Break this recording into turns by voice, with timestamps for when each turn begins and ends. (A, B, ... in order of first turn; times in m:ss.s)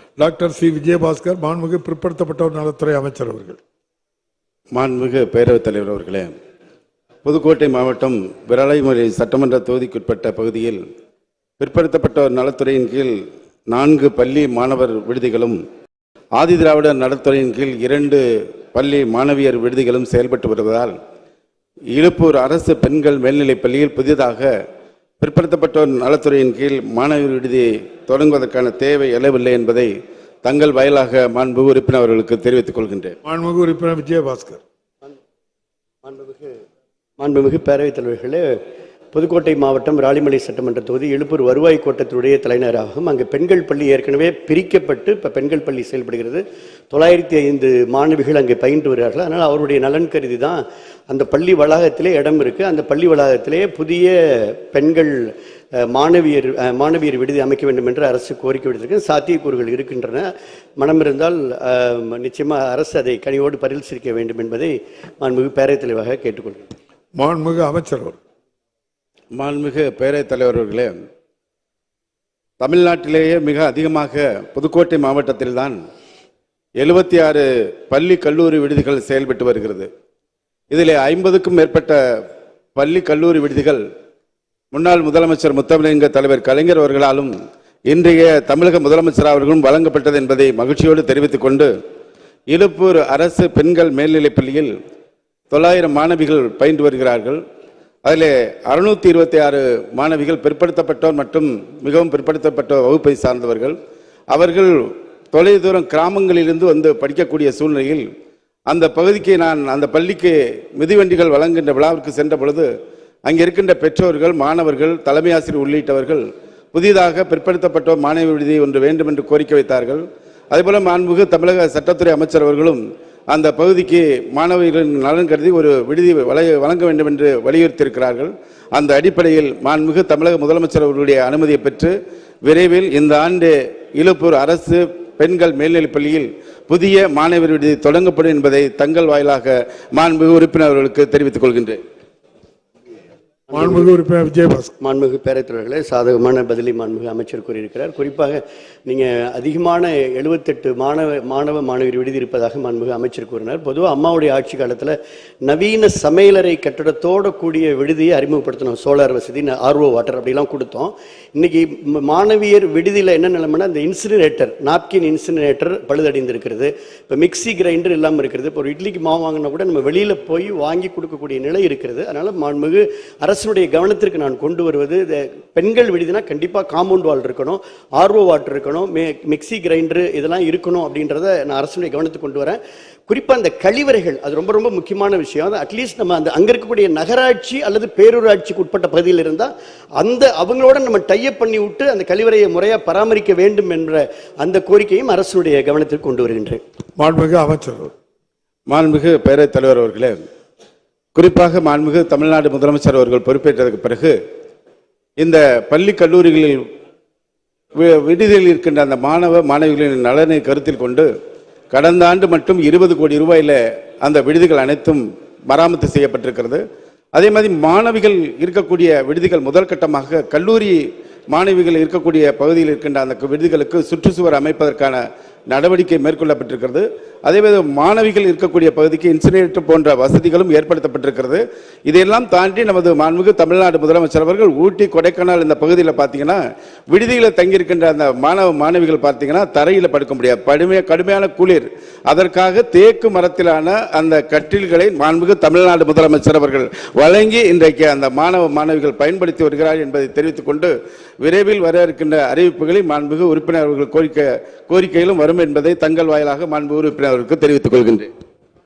0:00.2-0:03.6 A
0:04.8-0:06.3 B
0:07.2-0:10.8 B
0:11.6-0:13.1 B
0:13.7-0:15.6 B
0:16.4-0:18.2 B
0:18.7-0:20.9 B
0:21.9-0:24.5 B
0:25.2-0:29.9 B
0:30.4-0:33.1 B
0:33.2-0:34.6 A
0:36.0-0:36.6 C
0:37.2-0:38.4 C
0:39.1-0:55.2 C
0:55.8-1:06.7 C
1:07.1-1:08.2 A
1:09.3-1:10.9 B
1:12.6-1:15.8 B
1:16.8-1:19.9 B
1:20.7-1:22.0 B
1:22.8-1:23.8 B
1:24.7-1:27.3 B
1:27.9-1:31.7 B
1:32.5-1:34.7 B
1:35.5-1:37.4 B
1:38.0-1:43.8 B
1:44.3-1:44.7 B
1:45.3-1:48.0 B
1:48.7-1:52.7 B
1:53.2-2:21.8 B
2:23.5-2:23.9 C
2:23.5-2:24.7 A
2:24.8-2:34.9 C
2:35.4-3:16.6 C
3:17.0-3:17.9 A
3:18.7-3:20.2 B
3:21.1-3:24.2 B
3:25.2-3:26.6 B
3:27.8-3:31.1 B
3:31.7-3:36.6 B
3:37.2-3:40.8 B
3:41.3-3:56.4 B
3:56.9-4:10.7 B
4:11.2-4:18.1 B